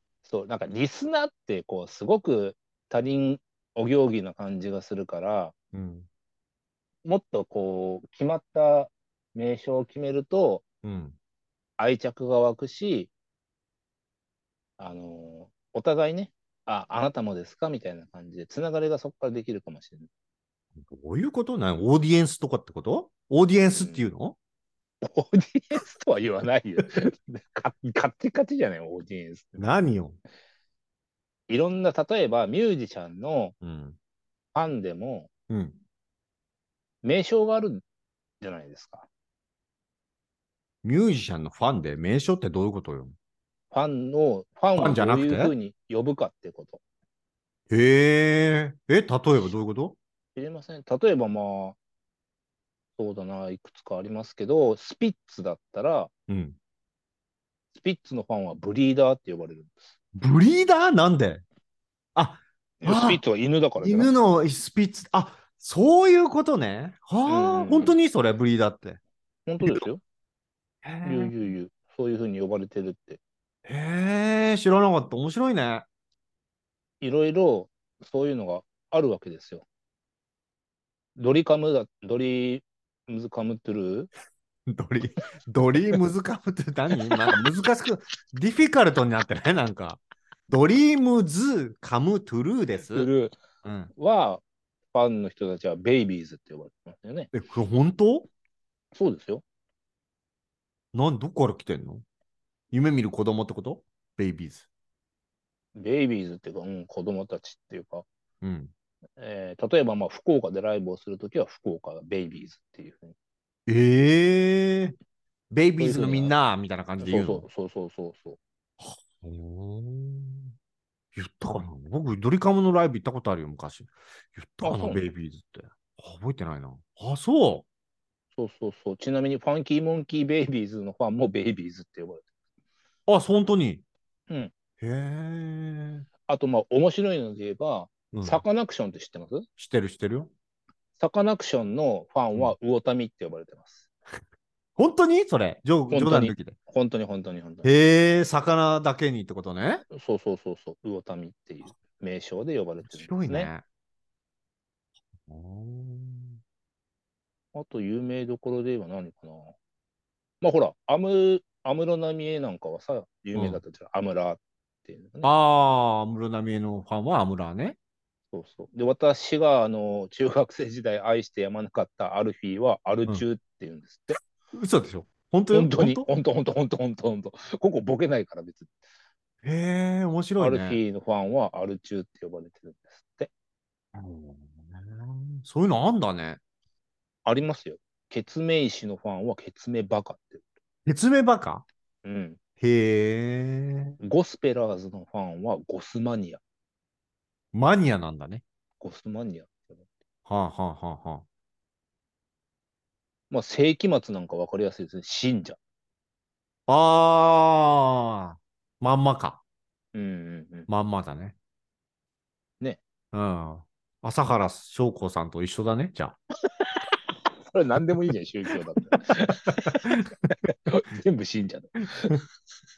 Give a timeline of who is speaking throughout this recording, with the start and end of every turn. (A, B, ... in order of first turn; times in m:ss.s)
0:00.2-0:05.5 A
0:05.7-0:06.1 B
0:07.0-0:10.6 A
0:10.8-0:11.2 B
0:11.8-0:13.1 A
0:14.8-0:20.1 A
0:20.8-0:24.4 B
0:23.7-0:24.0 A
0:25.0-0:29.6 A
0:29.6-0:30.2 B
0:31.5-0:33.5 A
0:33.6-0:34.0 B
0:34.5-0:35.3 A
0:35.5-0:35.8 B
0:37.0-0:37.8 A
0:38.4-0:39.1 A
0:40.8-0:43.1 B
0:43.7-0:46.8 A
0:44.8-0:45.5 B
0:47.7-0:50.0 B
0:50.3-0:51.8 A
0:53.0-0:56.1 A
0:56.3-0:56.6 B
0:57.7-0:59.7 A
1:00.2-1:01.4 B
1:02.2-1:03.2 B
1:02.8-1:04.1 A
1:03.8-1:09.0 B
1:07.3-1:08.0 A
1:09.5-1:10.0 A
1:10.8-1:11.5 B
1:11.0-1:13.2 A
1:13.6-1:15.8 B
1:17.0-1:19.6 A
1:21.2-1:24.1 A
1:24.7-1:33.1 B
1:32.9-1:33.4 A
1:33.6-1:33.9 B
1:34.0-1:34.4 A
1:34.9-1:37.3 A
1:37.3-1:38.3 B
1:38.9-1:39.4 A
1:40.9-1:42.0 B
1:42.7-1:44.6 B
1:45.7-1:48.0 A
1:48.4-1:48.7 B
1:49.2-1:53.1 A
1:53.7-1:55.0 B
1:55.5-1:57.4 B
1:55.8-1:56.3 A
1:57.0-1:58.4 A
1:58.8-2:00.5 B
2:01.1-2:07.6 B
2:04.6-2:05.0 A
2:08.3-2:12.2 A
2:13.1-2:13.8 B
2:14.8-2:16.0 B
2:16.3-2:19.4 A
2:18.1-2:18.4 B
2:19.6-2:20.3 B
2:21.0-2:23.9 A
2:24.8-2:26.6 B
2:25.9-2:27.7 A
2:27.6-2:29.8 B
2:29.9-2:33.5 A
2:32.9-2:33.6 B
2:35.3-2:36.4 B
2:37.5-2:39.6 A
2:40.4-2:45.3 A
2:43.3-2:43.6 B
2:45.2-2:47.8 B
2:48.3-2:54.2 A
2:54.5-2:56.1 B
2:55.5-2:58.7 A
2:59.4-3:00.8 B
3:00.4-3:03.3 A
3:03.9-3:06.4 B
3:07.2-3:10.4 A
3:10.8-3:11.6 B
3:12.0-3:12.4 A
3:12.6-3:14.0 B
3:14.0-3:16.4 A
3:17.5-3:18.4 B
3:18.8-3:19.8 A
3:20.2-3:21.2 B
3:23.3-3:25.6 A
3:26.7-3:29.4 B
3:29.9-3:30.7 A
3:30.7-3:31.3 B
3:33.1-3:36.2 B
3:36.6-3:39.9 A
3:38.9-3:40.1 B
3:40.6-3:42.2 A